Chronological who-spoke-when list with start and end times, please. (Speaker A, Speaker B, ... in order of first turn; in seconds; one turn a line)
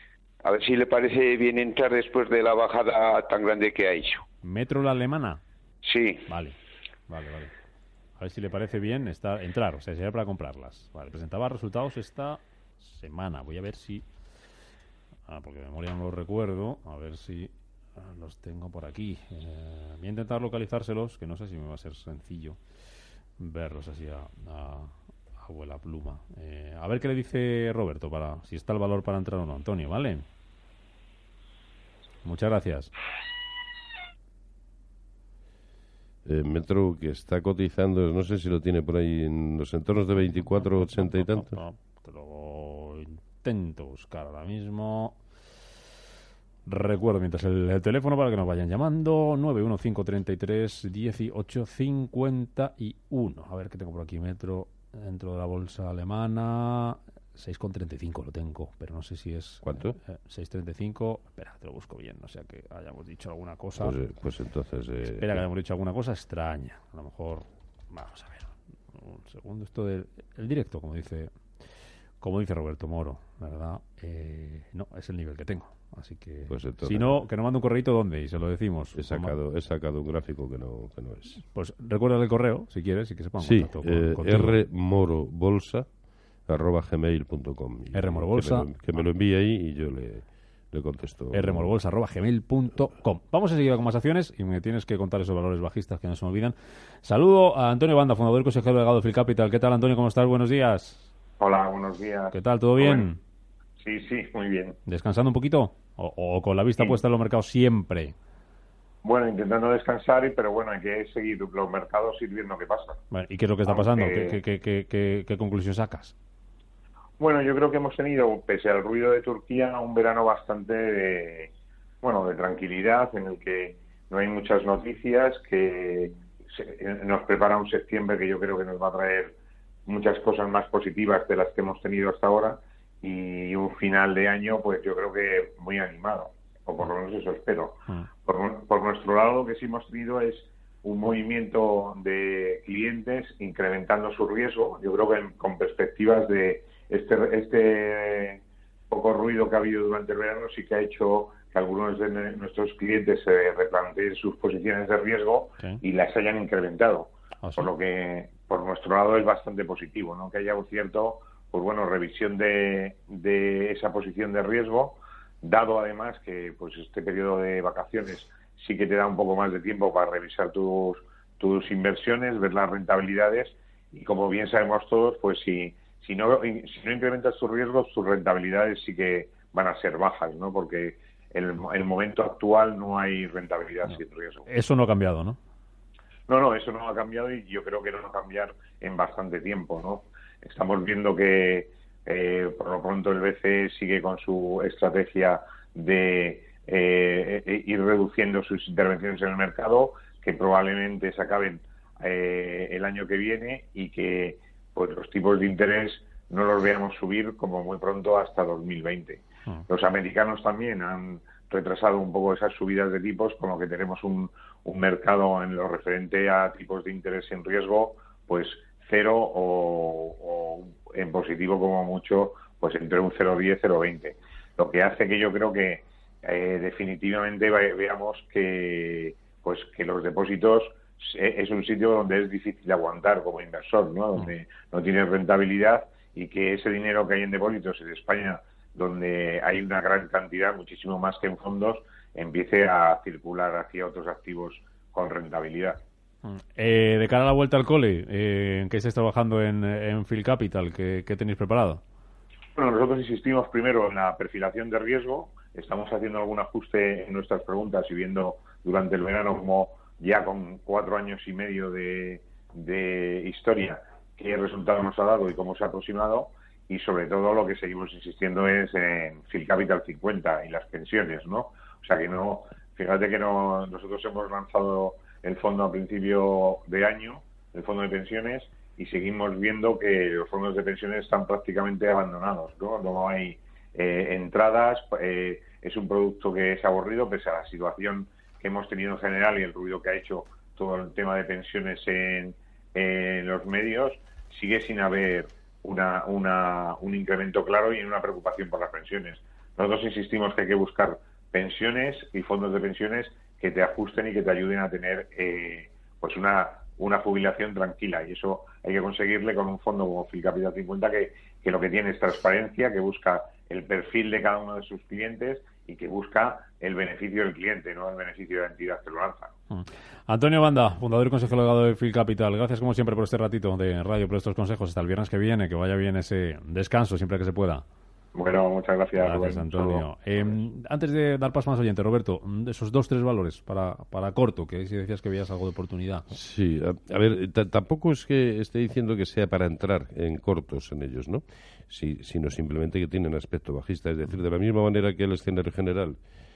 Speaker A: 0.4-4.2
Speaker B: 4.4-5.4
Speaker A: 5.8-6.2
Speaker B: 6.3-6.6
Speaker B: 7.1-7.5
Speaker B: 8.2-14.1
Speaker B: 15.3-22.6
Speaker B: 23.4-30.2
Speaker B: 32.2-32.9
Speaker C: 36.2-41.5
Speaker B: 40.3-45.2
Speaker B: 46.6-63.9
Speaker C: 59.6-60.0
Speaker C: 63.8-65.4
Speaker B: 65.0-71.3
Speaker B: 72.2-79.3
Speaker C: 76.5-77.1
Speaker C: 78.9-81.4
Speaker B: 81.3-84.6
Speaker C: 83.4-85.9
Speaker C: 86.5-91.7
Speaker B: 87.9-88.7
Speaker B: 91.3-101.1
Speaker D: 101.4-103.1
Speaker B: 102.3-103.2
Speaker D: 103.8-104.8
Speaker B: 104.8-108.1
Speaker D: 109.0-113.0
Speaker B: 113.1-116.1
Speaker D: 113.7-114.4
Speaker D: 117.2-121.5
Speaker D: 122.0-184.5
Speaker B: 157.4-157.7
Speaker B: 184.5-185.4
Speaker D: 186.3-245.8
Speaker B: 246.2-251.8
Speaker D: 252.6-319.3
Speaker B: 319.5-327.6
Speaker D: 328.1-330.3
Speaker B: 329.0-336.1
Speaker C: 336.1-346.0